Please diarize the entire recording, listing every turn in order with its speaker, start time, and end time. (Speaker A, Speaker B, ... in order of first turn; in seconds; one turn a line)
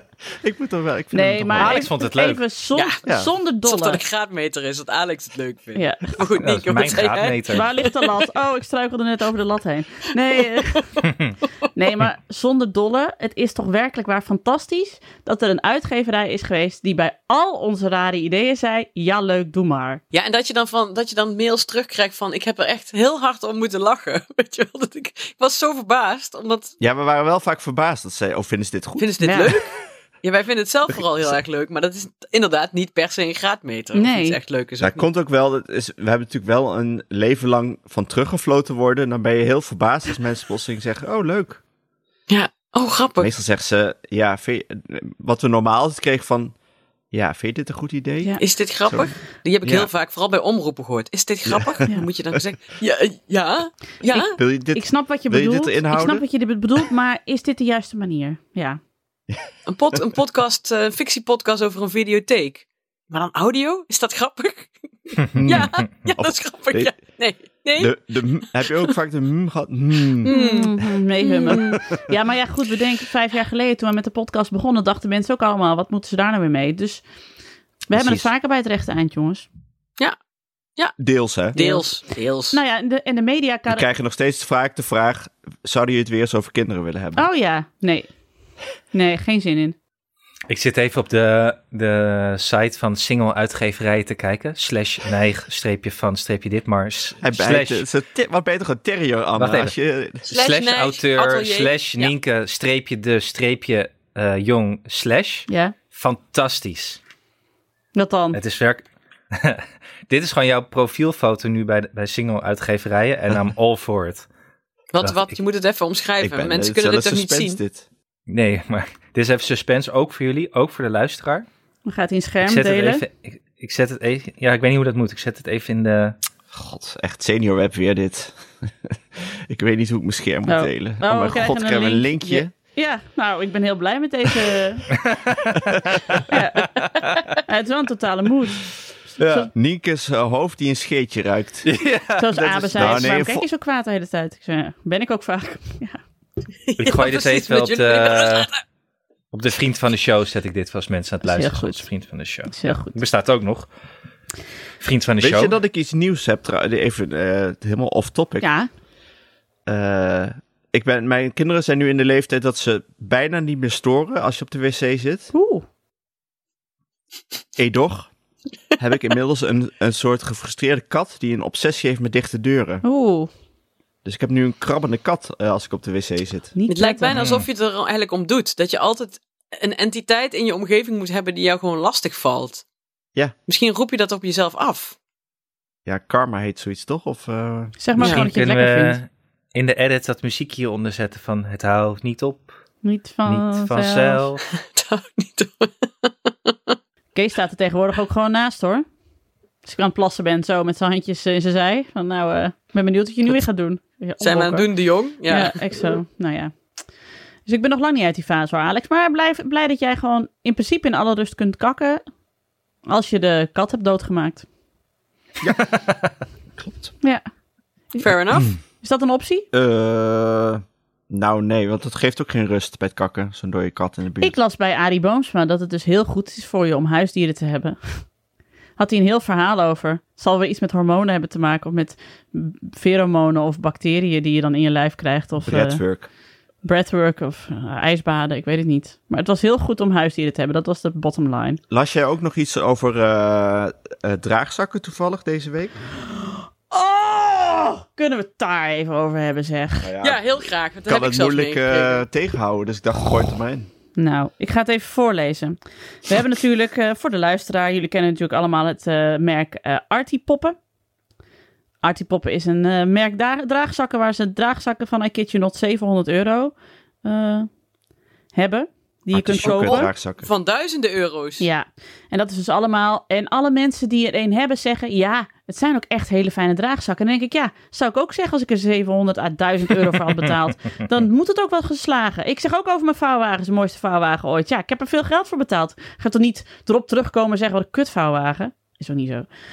Speaker A: 0.3-1.9
Speaker B: 1.1-4.0
Speaker C: 1.6-2.4
Speaker A: 3.1-3.3
Speaker D: 3.6-8.0
Speaker B: 5.8-6.3
Speaker C: 6.4-7.7
Speaker B: 7.5-10.9
Speaker C: 11.0-11.4
Speaker B: 11.8-20.0
Speaker D: 20.1-26.8
Speaker A: 26.8-29.1
Speaker D: 29.0-35.0
Speaker B: 29.2-29.6
Speaker B: 33.9-34.4
Speaker A: 34.8-41.6
Speaker D: 42.3-43.3
Speaker A: 43.2-46.5
Speaker A: 47.1-49.1
Speaker D: 48.4-54.4
Speaker A: 49.6-49.9
Speaker B: 54.1-58.8
Speaker A: 54.4-56.2
Speaker D: 59.6-68.0
Speaker A: 65.3-66.9
Speaker A: 67.8-70.3
Speaker D: 68.6-68.9
Speaker D: 70.2-71.8
Speaker B: 70.3-77.0
Speaker B: 77.9-79.5
Speaker A: 77.9-78.3
Speaker A: 81.0-81.6
Speaker D: 81.5-82.6
Speaker B: 81.6-81.9
Speaker B: 82.5-83.9
Speaker A: 83.7-87.3
Speaker B: 87.2-88.1
Speaker B: 88.9-89.8
Speaker C: 90.5-97.8
Speaker A: 97.2-100.2
Speaker C: 99.4-99.7
Speaker D: 100.3-102.1
Speaker C: 100.3-107.0
Speaker B: 105.5-105.8
Speaker B: 108.0-108.4
Speaker C: 108.3-114.3
Speaker D: 114.9-117.6
Speaker C: 115.0-115.3
Speaker A: 116.2-117.9
Speaker C: 118.3-121.5
Speaker B: 121.9-123.0
Speaker C: 122.4-126.2
Speaker A: 126.5-132.5
Speaker B: 130.5-134.9
Speaker C: 135.0-137.4
Speaker B: 136.3-136.8
Speaker B: 137.4-138.7
Speaker A: 139.2-143.5
Speaker B: 139.2-139.5
Speaker C: 141.7-143.1
Speaker B: 142.2-146.0
Speaker D: 146.7-148.6
Speaker C: 146.8-148.5
Speaker C: 149.3-153.7
Speaker B: 151.2-151.9
Speaker B: 152.5-153.0
Speaker C: 154.8-155.6
Speaker A: 155.2-158.5
Speaker B: 158.4-158.7
Speaker A: 159.7-165.3
Speaker B: 165.3-165.6
Speaker A: 167.6-168.1
Speaker A: 168.8-172.8
Speaker B: 172.8-173.3
Speaker A: 174.1-176.5
Speaker B: 176.6-177.1
Speaker D: 176.7-182.6
Speaker C: 177.1-177.5
Speaker D: 183.5-185.0
Speaker A: 185.9-187.8
Speaker B: 187.8-189.0
Speaker C: 188.0-192.6
Speaker B: 192.8-194.3
Speaker C: 193.3-194.4
Speaker D: 194.6-196.8
Speaker B: 197.1-198.8
Speaker B: 199.6-204.7
Speaker D: 204.2-205.6
Speaker B: 205.3-206.5
Speaker B: 207.5-212.0
Speaker B: 212.9-214.5
Speaker A: 215.4-215.7
Speaker A: 216.6-216.9
Speaker D: 218.0-218.6
Speaker B: 218.7-219.5
Speaker A: 219.5-224.4
Speaker B: 224.2-228.0
Speaker B: 228.8-235.8
Speaker A: 235.4-236.1
Speaker B: 236.6-241.6
Speaker A: 241.7-245.8
Speaker B: 246.1-249.9
Speaker A: 249.8-250.2
Speaker D: 250.0-252.1
Speaker A: 250.9-253.7
Speaker B: 254.0-260.6
Speaker B: 261.8-267.5
Speaker B: 268.3-269.9
Speaker A: 269.1-270.3
Speaker D: 269.5-271.5
Speaker B: 271.4-289.3